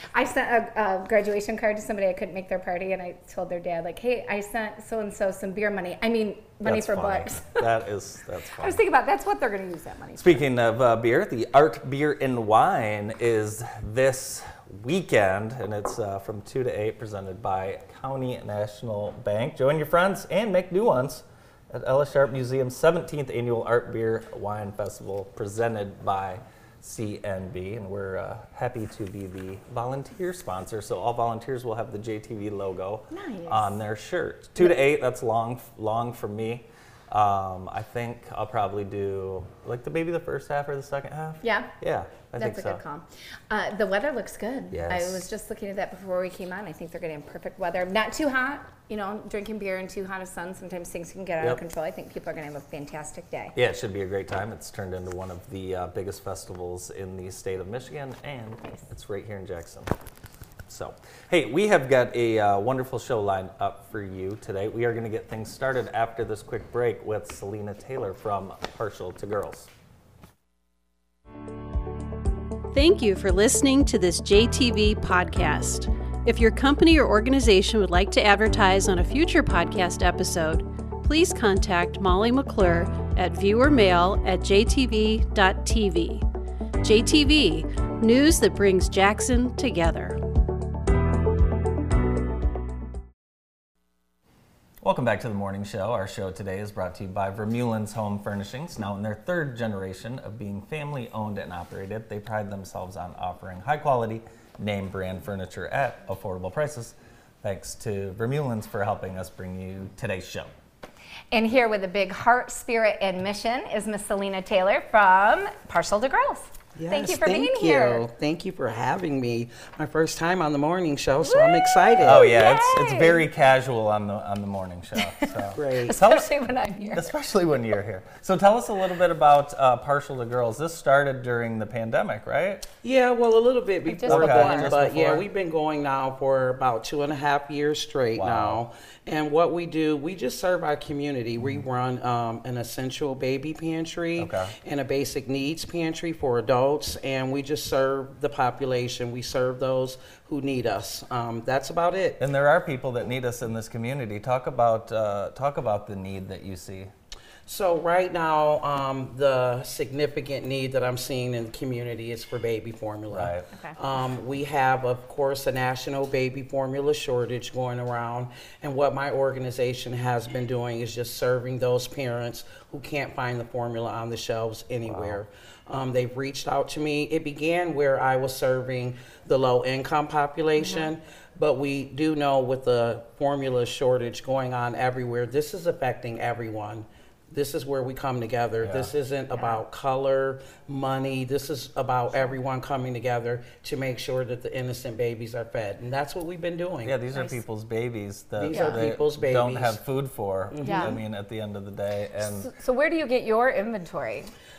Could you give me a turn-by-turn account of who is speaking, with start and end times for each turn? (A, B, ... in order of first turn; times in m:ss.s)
0:00.1-0:07.6 A
0:06.6-0:08.8 B
0:08.6-0:10.4 A
0:10.2-0:42.8 B
0:33.1-0:33.8 A
0:41.4-0:41.7 A
0:42.3-0:53.6 A
0:44.7-0:45.3 B
0:53.5-0:59.9 B
1:00.7-1:09.7 B
1:12.7-1:26.2 C
1:26.8-1:30.2 C
1:34.8-1:50.5 B
1:51.3-1:58.0 A
1:56.8-2:02.3 D
2:01.2-2:03.2 A
2:02.0-2:12.6 B
2:05.0-2:07.1 A
2:05.5-2:06.0 D
2:12.8-2:32.2 D
2:13.9-2:14.7 A
2:14.1-2:15.2 B
2:18.2-2:18.6 B
2:24.2-2:24.5 B
2:32.2-2:36.9 B
2:37.4-3:17.0 D
2:43.1-2:43.5 B
2:54.9-2:55.2 B
3:00.6-3:00.9 A
3:08.6-3:08.9 B
3:09.3-3:09.6 A
3:16.8-3:22.5 B
3:18.4-3:19.8 D
3:18.5-3:18.8 A
3:20.5-3:21.0 D
3:20.6-3:21.0 A
3:22.3-3:24.3 A